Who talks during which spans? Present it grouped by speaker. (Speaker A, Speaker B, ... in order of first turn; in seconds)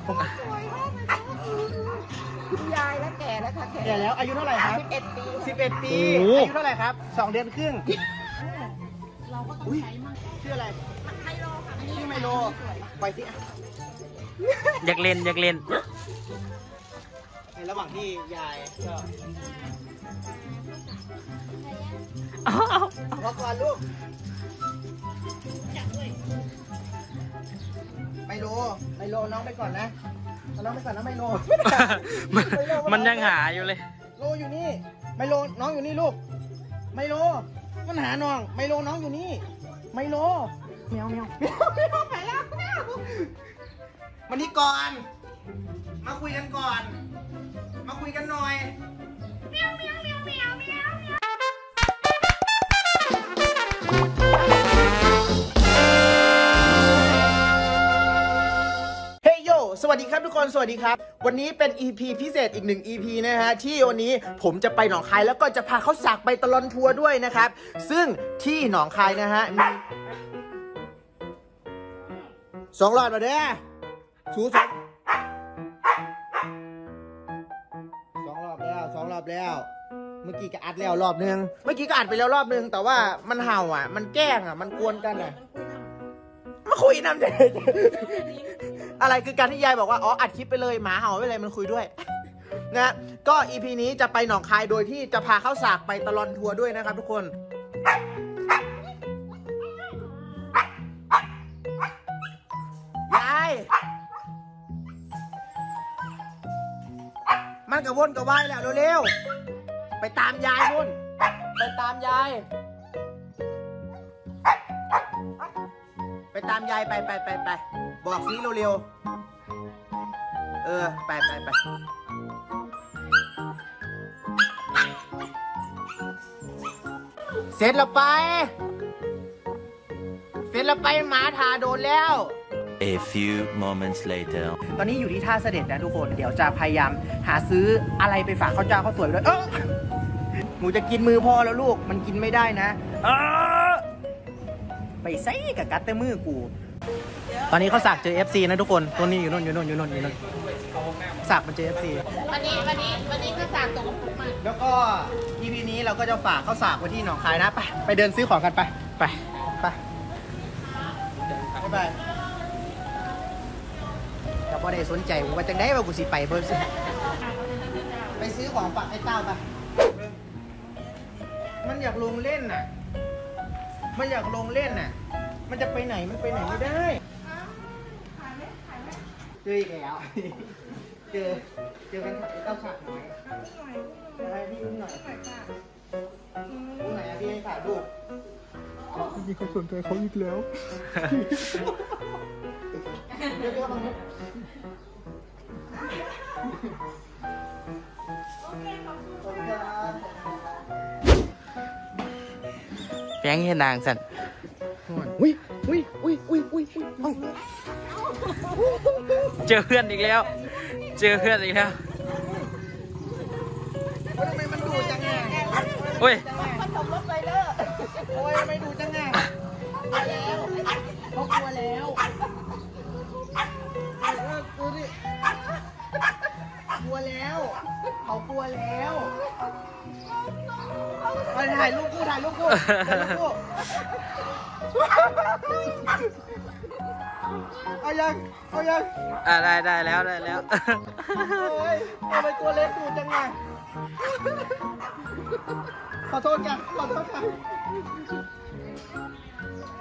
Speaker A: 0.2-5.7, 8.4-8.7, 9.3-10.3, 11.0-12.9, 21.6-22.0, 41.6-43.1, 49.5-51.0, 84.8-85.9, 88.0-88.5, 152.1-154.4, 178.2-178.9, 183.6-183.9, 214.7-218.2
Speaker B: 3.8-4.8, 5.4-7.9, 9.6-10.8, 11.8-13.4, 17.5-18.8, 23.1-23.8, 28.3-29.9, 30.5-33.4, 34.1-36.2, 36.9-42.0, 44.3-45.0, 46.0-47.0, 47.8-48.7, 59.2-69.8, 72.7-73.6, 74.3-74.8, 78.2-79.7, 80.2-85.4, 86.6-91.9, 92.7-97.3, 103.1-103.7, 107.7-109.1, 110.0-111.0, 111.6-112.5, 116.3-118.8, 120.6-121.6, 127.5-128.5, 130.5-132.3, 134.7-139.7, 140.6-143.8, 145.0-146.5, 147.5-150.2, 151.2-152.2, 154.4-159.8, 161.6-162.0, 164.5-166.7, 168.2-169.4, 171.6-172.7, 173.9-174.9, 175.5-177.0, 179.4-183.2, 184.2-185.1, 186.6-187.9, 193.2-194.0, 199.2-200.2, 204.9-207.3, 208.5-209.3, 214.1-216.6, 218.1-219.2, 219.9-222.0, 223.9-224.9, 226.8-229.1, 231.3-233.4, 234.8-236.0, 237.8-238.9, 241.2-243.3, 246.1-247.4
Speaker C: 5.9-6.5, 14.8-15.6, 22.5-22.9, 31.6-33.8, 203.2-204.0, 209.3-211.8, 216.0-216.2, 232.5-233.1, 239.2-241.5
Speaker D: 132.8-134.6, 189.2-190.5, 191.0-191.6